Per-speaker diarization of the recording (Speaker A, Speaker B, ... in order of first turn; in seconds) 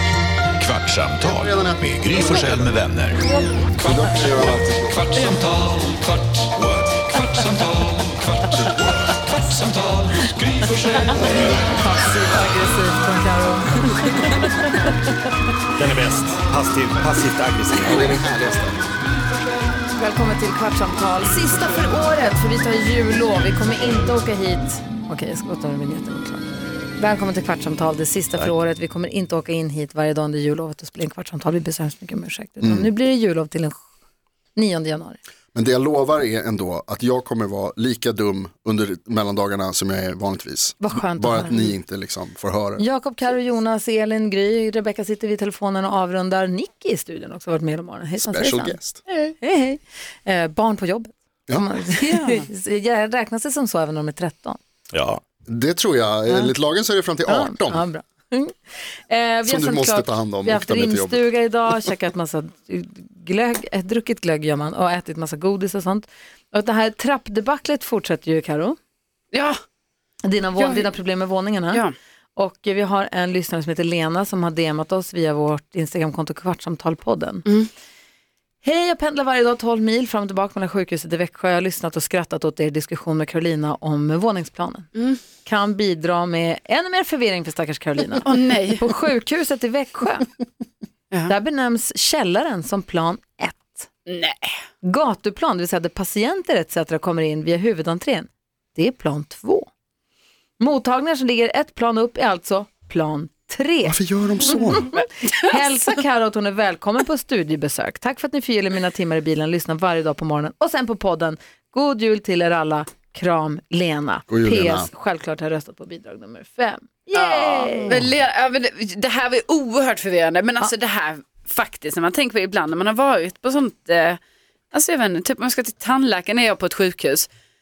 Speaker A: 0.6-3.2, 3.8-11.6
Speaker B: 1.2-2.8, 3.8-5.0, 11.2-11.6, 17.8-18.8, 32.6-32.9, 35.5-42.8, 48.2-49.0, 55.5-57.8, 59.4-61.3, 103.8-104.9, 114.3-114.9
Speaker C: 11.6-14.9, 19.9-26.4, 27.0-33.8, 34.5-35.2, 40.8-41.7, 42.8-48.8, 49.4-54.6, 57.3-58.5, 59.1-68.8, 70.2-71.8, 72.3-77.5, 78.6-84.9, 85.4-90.3, 91.3-93.9, 94.8-99.7, 100.6-104.0, 104.5-118.0
Speaker D: 15.8-18.2, 54.9-55.2
Speaker E: 52.1-52.5, 69.3-69.6, 70.6-70.9, 84.9-85.2, 88.2-88.8, 94.1-94.5, 117.1-124.2, 124.7-127.3